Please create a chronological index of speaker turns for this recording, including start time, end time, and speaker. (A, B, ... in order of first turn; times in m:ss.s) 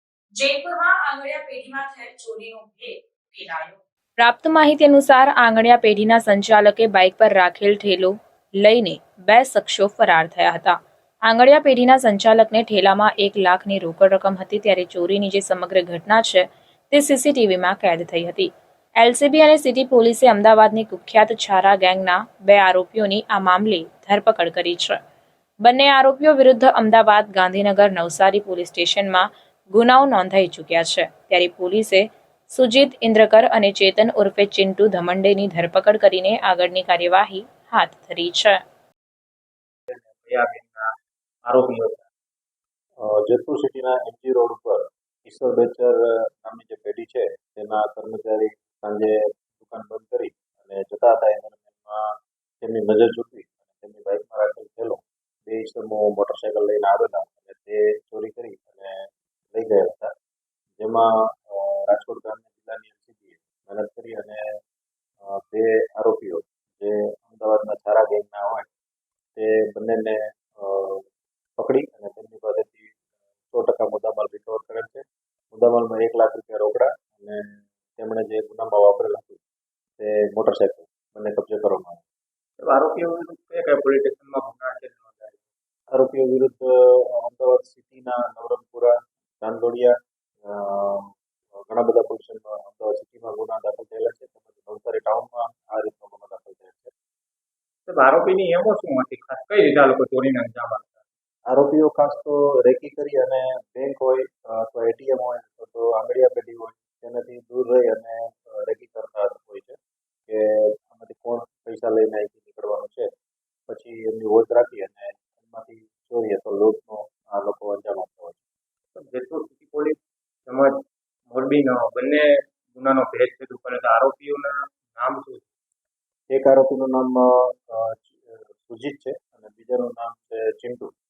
0:00.3-0:25.0 A
0:25.6-0:38.6 A
0:39.9-0:40.9 B
0:41.4-0:42.1 B
0:43.0-1:00.1 C
1:00.8-1:04.4 C
1:05.2-1:08.7 C
1:09.4-1:11.1 C
1:11.6-1:13.0 C
1:13.5-1:19.4 C
1:20.0-1:22.0 C
1:22.6-1:25.4 B
1:25.9-1:29.9 C
1:30.4-1:31.1 C
1:31.7-1:36.9 C
1:37.9-1:41.0 B
1:41.5-1:49.8 C
1:50.3-1:53.1 C
1:53.7-1:58.4 C
1:59.0-2:05.5 B
2:06.3-2:10.9 C